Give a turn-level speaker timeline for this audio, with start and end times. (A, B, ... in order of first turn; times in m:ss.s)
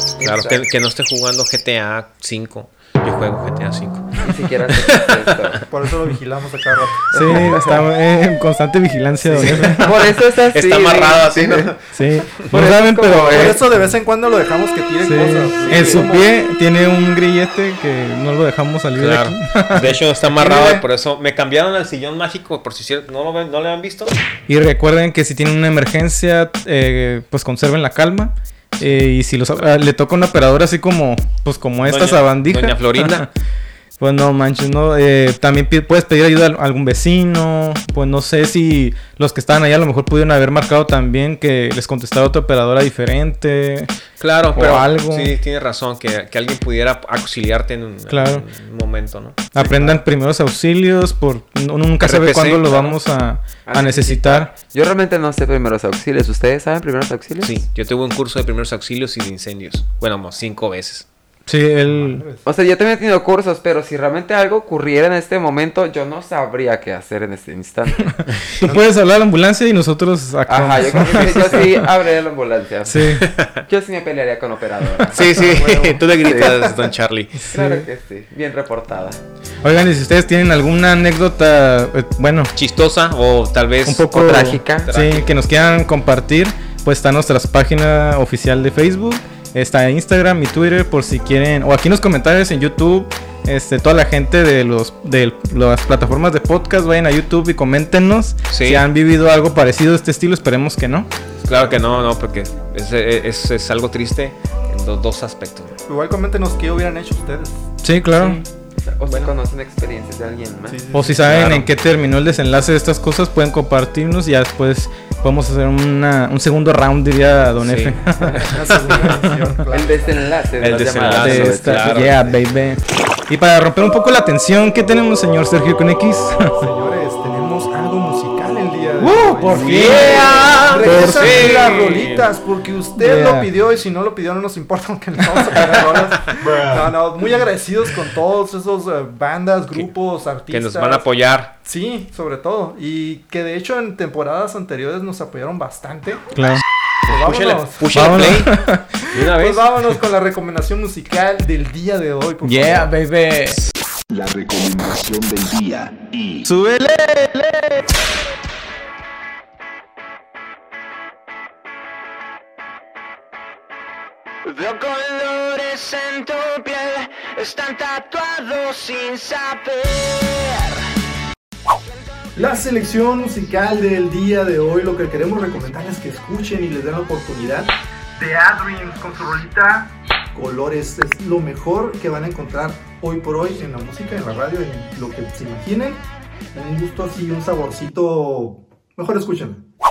0:00.2-0:00.6 A
0:00.2-0:05.2 B
0:04.2-0:05.6 A
0:05.7-0:07.7 C
0:07.1-0:07.8 A
0:07.1-0:09.9 D
0:09.2-0:09.7 C
0:09.4-0:09.9 B
0:09.6-0:11.7 A
0:10.5-0:11.7 B
0:11.9-0:13.6 D
0:12.5-0:13.6 A
0:13.3-0:16.4 C
0:15.0-0:20.0 D
0:15.7-0:16.0 A
0:19.0-0:24.2 B
0:20.2-0:20.9 C
0:24.5-0:33.3 D
0:31.8-0:33.3 B
0:34.0-0:43.9 D
0:44.2-0:49.5 B
0:44.5-0:45.4 D
0:48.1-0:48.4 D
0:49.5-0:54.5 D
0:52.0-0:53.0 B
0:53.7-0:57.5 A
0:57.4-1:01.1 B
1:01.5-1:02.2 D
1:01.9-1:02.4 C
1:02.4-1:08.2 A
1:08.6-1:11.9 D
1:10.5-1:13.0 A
1:12.9-1:13.3 D
1:13.2-1:13.6 B
1:13.6-1:15.3 A
1:15.1-1:17.3 B
1:15.2-1:16.8 C
1:16.2-1:16.7 A
1:17.5-1:19.2 A
1:19.6-1:22.5 D
1:22.6-1:25.4 B
1:23.8-1:41.1 D
1:24.1-1:24.9 A
1:38.5-1:38.9 B
1:41.4-1:45.8 B
1:45.9-1:47.7 C
1:47.8-1:48.4 D
1:48.2-1:50.8 A
1:49.1-1:49.3 B
1:50.7-1:51.3 C
1:50.9-1:59.6 D
1:51.2-1:51.7 B
1:57.6-1:58.5 B
1:58.4-2:00.2 C
1:59.7-2:02.0 A
2:00.6-2:02.2 B
2:01.2-2:06.6 D
2:06.6-2:21.1 C
2:09.0-2:11.6 D
2:09.5-2:12.3 B
2:13.0-2:13.5 D
2:20.5-2:21.5 B
2:21.6-2:26.2 C
2:26.4-2:26.6 D
2:27.1-2:27.9 C
2:27.1-2:28.5 B
2:27.9-2:29.1 D
2:29.1-2:29.6 B
2:29.3-2:32.9 C
2:32.4-2:33.6 D
2:34.1-2:36.5 E
2:36.5-2:37.9 D
2:44.5-2:50.8 F
2:52.4-3:06.0 C
3:06.5-3:09.6 C